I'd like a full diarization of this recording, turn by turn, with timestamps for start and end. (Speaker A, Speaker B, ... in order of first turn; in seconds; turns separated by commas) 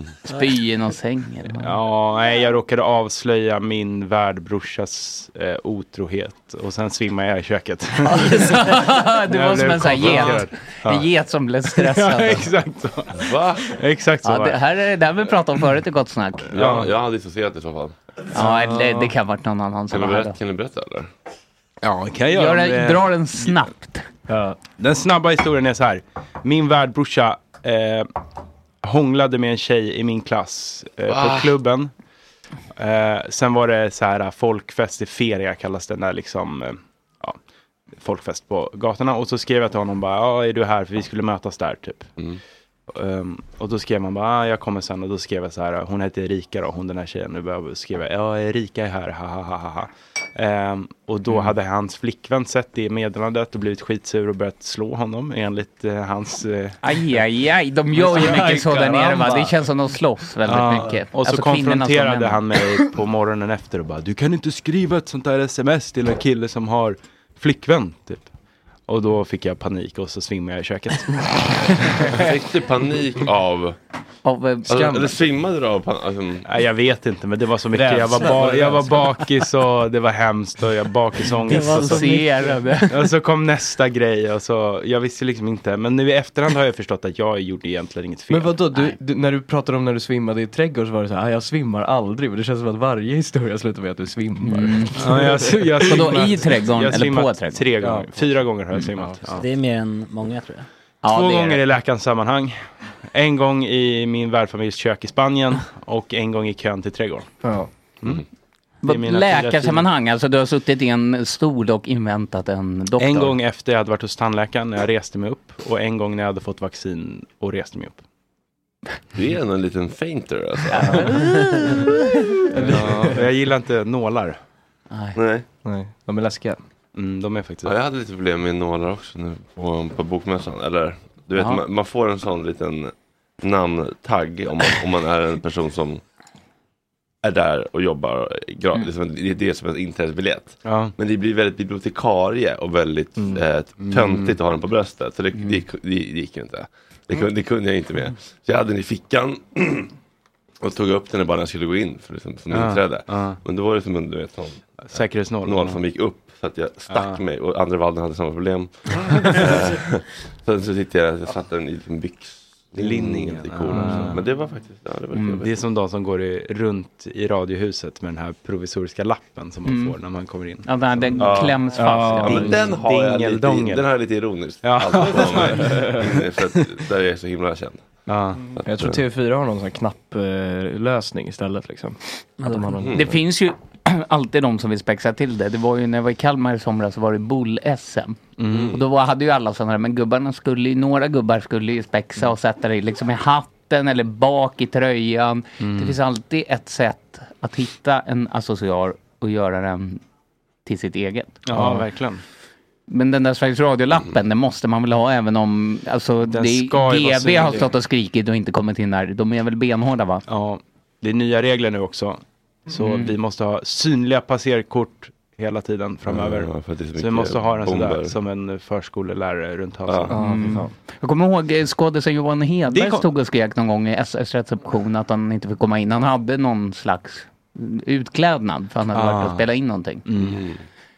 Speaker A: 0.3-1.8, Speaker B: 1.6-11.1, Speaker A: 8.1-12.5, Speaker C: 10.0-10.4, Speaker B: 11.7-14.6, Speaker C: 13.2-13.8, Speaker A: 14.2-16.5, Speaker C: 16.5-17.9, Speaker B: 16.5-16.9, Speaker A: 18.3-20.4, Speaker C: 19.9-21.1, Speaker B: 21.8-23.6, Speaker A: 22.3-24.1, Speaker D: 24.3-24.6, Speaker B: 24.8-28.1, Speaker B: 28.8-31.9, Speaker C: 31.1-31.5, Speaker B: 32.8-37.4, Speaker B: 38.0-42.1, Speaker B: 42.9-56.8, Speaker A: 56.8-62.6, Speaker D: 57.9-59.6, Speaker B: 60.5-68.3, Speaker B: 68.9-72.3, Speaker C: 72.1-73.8, Speaker A: 74.2-75.1, Speaker C: 74.7-76.5, Speaker B: 76.5-82.3, Speaker D: 77.7-79.2, Speaker A: 81.5-83.1, Speaker E: 81.8-82.4, Speaker B: 82.9-88.6, Speaker D: 88.3-95.9, Speaker A: 94.4-95.0, Speaker B: 95.0-99.4, Speaker A: 95.9-97.7, Speaker D: 97.8-98.4, Speaker E: 99.4-100.7, Speaker A: 101.0-101.6, Speaker B: 101.0-102.6, Speaker B: 103.1-107.3, Speaker D: 107.4-107.7, Speaker A: 108.8-113.4, Speaker B: 108.8-109.9, Speaker B: 113.0-118.0, Speaker C: 119.2-121.3, Speaker A: 120.7-121.9, Speaker D: 122.5-123.2, Speaker B: 122.6-124.4, Speaker A: 124.9-125.2, Speaker C: 125.2-125.5, Speaker D: 125.7-126.6, Speaker B: 127.0-127.7, Speaker C: 127.6-136.0, Speaker A: 131.4-131.6, Speaker C: 137.2-149.9, Speaker B: 140.6-140.9, Speaker B: 143.8-144.3, Speaker C: 150.6-165.7, Speaker B: 152.5-153.4, Speaker B: 154.8-155.8, Speaker B: 156.9-157.2, Speaker B: 158.9-159.5, Speaker B: 162.8-164.3, Speaker A: 165.1-165.4, Speaker B: 165.4-174.0, Speaker A: 169.7-170.0, Speaker A: 170.6-172.6, Speaker C: 171.2-179.0, Speaker D: 171.7-172.6, Speaker B: 174.6-176.6, Speaker D: 175.6-176.0, Speaker B: 178.1-178.4, Speaker D: 178.7-183.1, Speaker E: 182.4-182.8, Speaker C: 182.8-183.2, Speaker A: 182.9-200.0, Speaker B: 188.4-188.7, Speaker C: 188.5-188.8, Speaker B: 195.6-196.0, Speaker A: 200.7-201.7, Speaker B: 201.5-202.2, Speaker A: 202.9-210.2, Speaker B: 206.3-207.7, Speaker B: 210.3-220.1, Speaker A: 212.8-213.1, Speaker C: 216.1-218.2, Speaker C: 219.9-220.1, Speaker D: 220.1-220.7, Speaker A: 220.1-230.1, Speaker B: 222.7-223.1, Speaker B: 228.9-229.4, Speaker B: 230.1-230.4, Speaker C: 230.2-230.6